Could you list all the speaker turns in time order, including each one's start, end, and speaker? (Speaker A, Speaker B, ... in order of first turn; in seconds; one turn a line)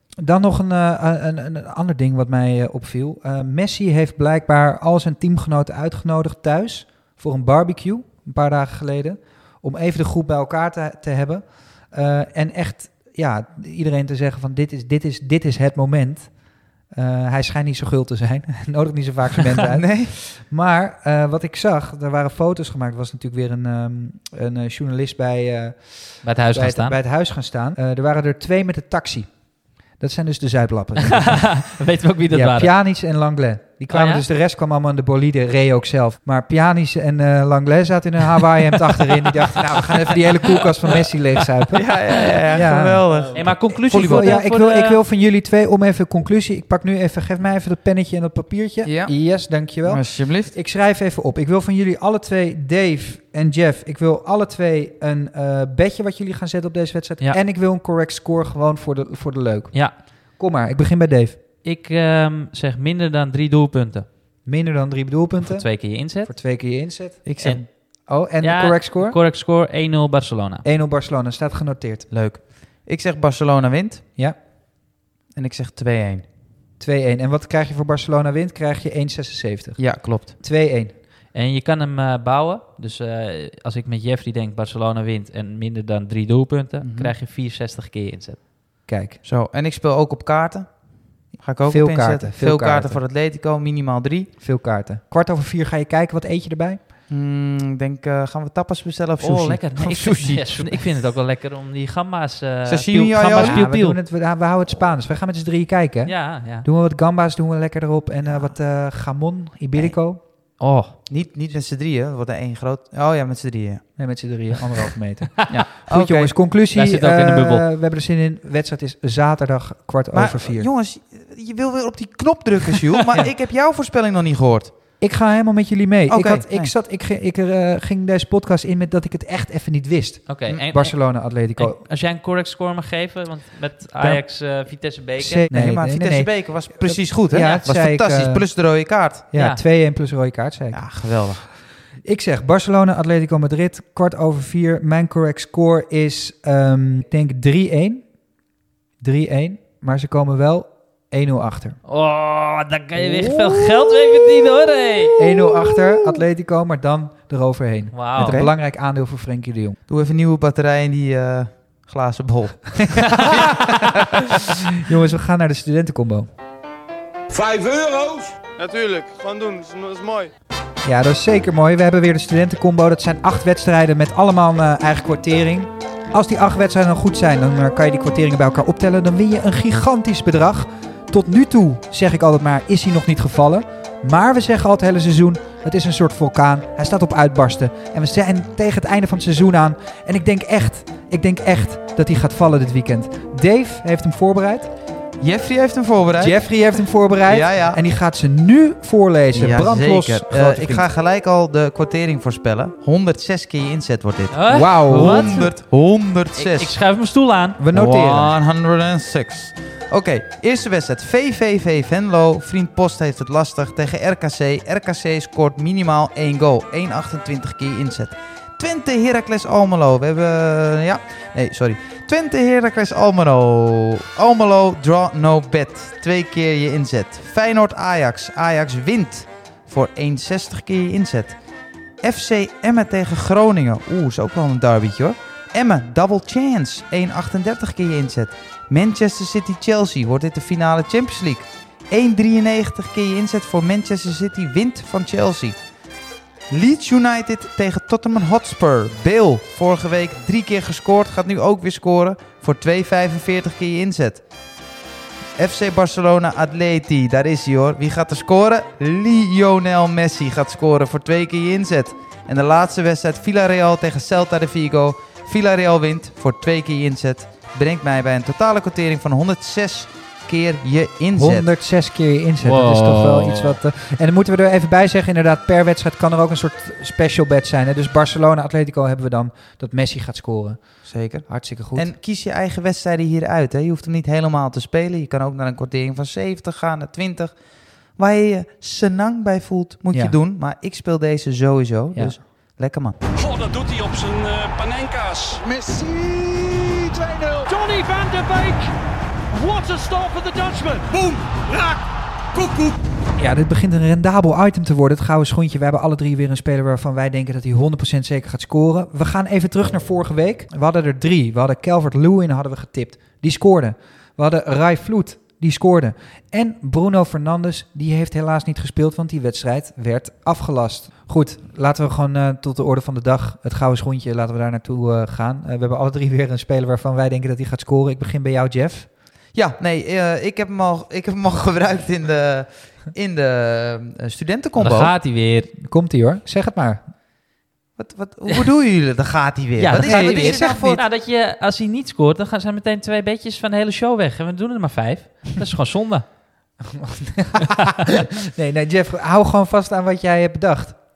Speaker A: 0.2-31.7
Speaker B: 19.7-20.1
Speaker C: 26.2-27.0
Speaker C: 31.1-32.7
Speaker A: 32.3-42.0
Speaker C: 33.9-34.2
Speaker B: 41.7-44.4
Speaker A: 42.5-43.1
Speaker C: 43.3-45.0
Speaker A: 43.9-61.4
Speaker B: 48.8-50.5
Speaker C: 61.6-64.1
Speaker A: 64.5-69.2
Speaker C: 65.4-66.3
Speaker B: 67.2-67.6
Speaker C: 67.4-70.7
Speaker A: 70.6-72.1
Speaker B: 72.1-74.0
Speaker B: 75.3-76.3
Speaker A: 76.8-81.0
Speaker B: 79.8-80.3
Speaker C: 81.3-88.5
Speaker B: 86.8-87.1
Speaker A: 88.9-89.2
Speaker B: 89.2-94.3
Speaker A: 91.7-93.0
Speaker A: 94.4-96.8
Speaker B: 97.1-101.0
Speaker C: 99.2-104.0
Speaker B: 102.7-103.6
Speaker A: 103.3-110.2
Speaker C: 106.1-106.7
Speaker B: 108.3-108.6
Speaker C: 110.6-111.0
Speaker B: 111.1-114.0
Speaker A: 114.0-120.7
Speaker B: 115.5-116.4
Speaker C: 116.7-117.6
Speaker B: 120.1-124.7
Speaker A: 125.0-131.8
Speaker B: 126.1-126.7
Speaker C: 130.3-135.5
Speaker A: 134.0-134.3
Speaker A: 135.2-138.7
Speaker B: 135.5-139.3
Speaker A: 139.3-141.5
Speaker C: 139.3-139.6
Speaker B: 140.7-141.5
Speaker A: 142.1-148.2
Speaker A: 149.0-151.8
Speaker C: 151.8-155.2
Speaker A: 155.2-159.8
Speaker B: 155.3-156.2
Speaker C: 157.9-158.4
Speaker B: 158.2-158.5
Speaker B: 159.9-164.2
Speaker A: 163.2-163.8
Speaker A: 164.8-166.3
Speaker D: 167.3-170.3
Speaker A: 170.8-194.7
Speaker B: 195.2-196.6
Speaker A: 196.2-200.9
Speaker B: 197.3-197.8
Speaker B: 199.3-206.8
Speaker C: 204.3-205.6
Speaker A: 204.5-205.4
Speaker C: 206.4-207.6
Speaker A: 207.6-208.3
Speaker B: 207.7-231.4
Speaker B: 232.0-245.6
Speaker B: 246.5-254.2
Speaker B: 255.4-271.5
Speaker A: 271.1-281.9
Speaker C: 272.4-273.6
Speaker B: 280.9-293.0
Speaker E: 293.1-295.4
Speaker D: 295.4-297.5
Speaker E: 297.5-298.6
Speaker E: 299.3-300.8
Speaker D: 300.9-301.8
Speaker D: 302.3-302.8
Speaker A: 303.2-328.9
Speaker B: 329.3-334.9
Speaker C: 334.6-335.5
Speaker A: 335.6-336.8
Speaker B: 337.8-340.8
Speaker C: 339.6-346.1
Speaker A: 339.8-340.8
Speaker A: 346.6-350.8